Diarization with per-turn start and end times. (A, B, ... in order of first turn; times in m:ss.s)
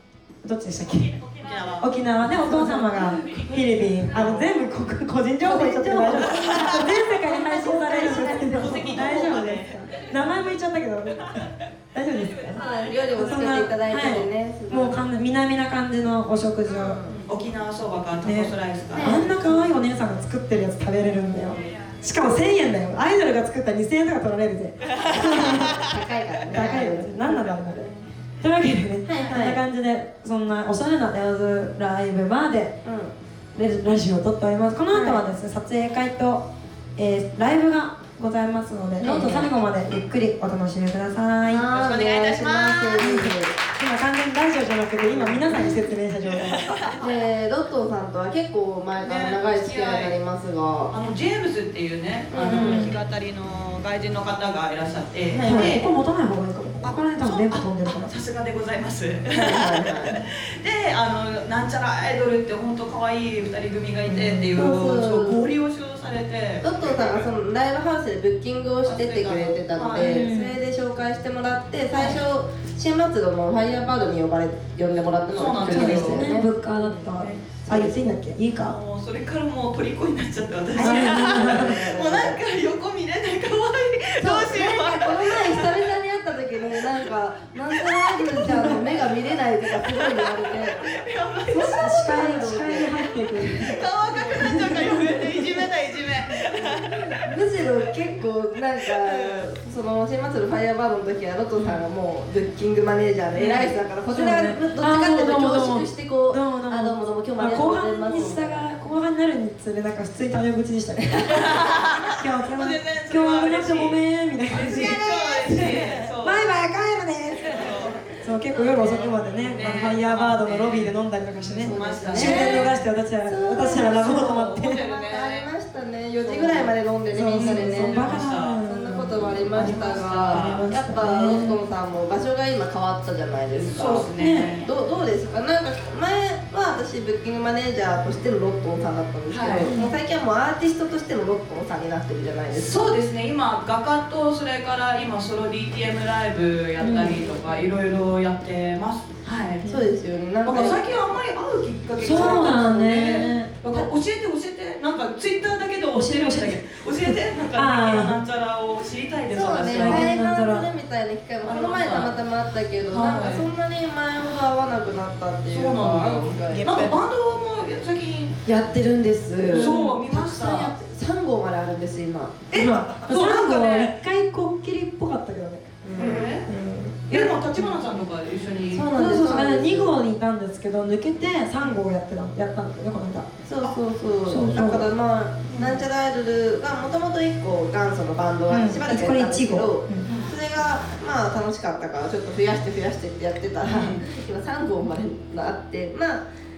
0:00.4-0:01.3 A
0:01.3-0:03.5 B
0:01.8-0:17.0 A
0:02.3-0:03.1 C
0:04.1-0:04.5 B
0:05.4-0:09.9 C
0:06.3-0:06.7 B
0:08.1-0:10.4 B
0:11.2-0:11.5 B
0:12.2-0:13.1 B
0:12.6-0:15.0 C
0:16.7-0:17.2 C
0:16.9-0:19.7 B
0:18.2-0:25.8 A
0:18.9-0:19.2 C
0:24.8-0:26.0 B
0:25.1-0:27.6 C
0:26.5-0:32.8 A
0:29.0-0:29.6 C
0:32.8-0:33.1 C
0:33.5-0:41.7 A
0:34.9-0:35.2 C
0:39.0-0:39.5 C
0:41.4-0:43.5 C
0:41.6-0:43.1 B
0:43.0-0:46.8 A
0:45.1-0:45.6 C
0:45.3-0:45.6 B
0:46.3-0:47.2 B
0:47.0-0:50.9 C
0:49.0-0:50.1 B
0:50.9-0:55.8 B
0:52.3-0:52.9 C
0:52.5-0:52.9 A
0:55.3-0:55.8 C
0:55.4-0:58.1 A
0:56.8-1:07.2 B
0:59.3-1:00.2 C
1:04.1-1:04.6 A
1:04.5-1:05.4 C
1:06.6-1:18.2 C
1:08.8-1:10.2 B
1:10.0-1:10.6 A
1:11.9-1:12.2 B
1:15.3-1:16.3 B
1:15.7-1:18.8 A
1:18.5-1:25.9 B
1:20.8-1:22.4 C
1:20.8-1:21.8 A
1:24.2-1:30.8 C
1:27.7-1:32.5 B
1:28.4-1:28.7 A
1:31.5-1:33.8 A
1:32.0-1:35.1 C
1:33.4-1:37.8 B
1:34.3-1:35.6 A
1:36.4-1:48.7 C
1:38.8-1:39.4 B
1:43.4-2:04.8 A
1:48.1-1:48.3 B
1:51.3-1:56.5 B
1:54.6-1:55.9 C
1:57.4-1:58.0 B
1:59.2-2:02.8 B
2:01.6-2:02.7 C
2:03.2-2:22.9 C
2:03.8-2:05.5 B
2:06.2-2:06.7 B
2:07.1-2:11.6 A
2:07.3-2:08.6 B
2:09.5-2:10.7 B
2:13.6-2:14.6 B
2:14.2-2:14.5 A
2:19.3-2:19.7 B
2:19.6-2:19.9 A
2:22.5-2:29.6 B
2:26.8-2:27.2 A
2:29.6-2:30.8 C
2:30.4-2:40.1 B
2:32.0-2:33.9 A
2:32.1-2:33.1 C
2:35.9-2:38.2 A
2:39.3-2:47.0 C
2:39.7-2:40.7 A
2:41.4-2:42.2 B
2:42.9-2:43.5 B
2:45.5-2:48.4 B
2:48.4-2:52.4 C
2:49.5-2:50.0 A
2:49.5-2:50.7 B
2:52.5-2:54.0 B
2:52.5-2:57.8 A
2:55.8-2:56.4 C
2:56.0-2:56.4 B
2:57.1-2:58.9 B
2:58.7-3:00.0 C
2:58.9-3:03.3 A
3:03.4-3:16.2 C
3:04.2-3:04.9 A
3:05.5-3:05.8 B
3:08.5-3:10.1 A
3:10.0-3:10.3 B
3:13.6-3:14.0 B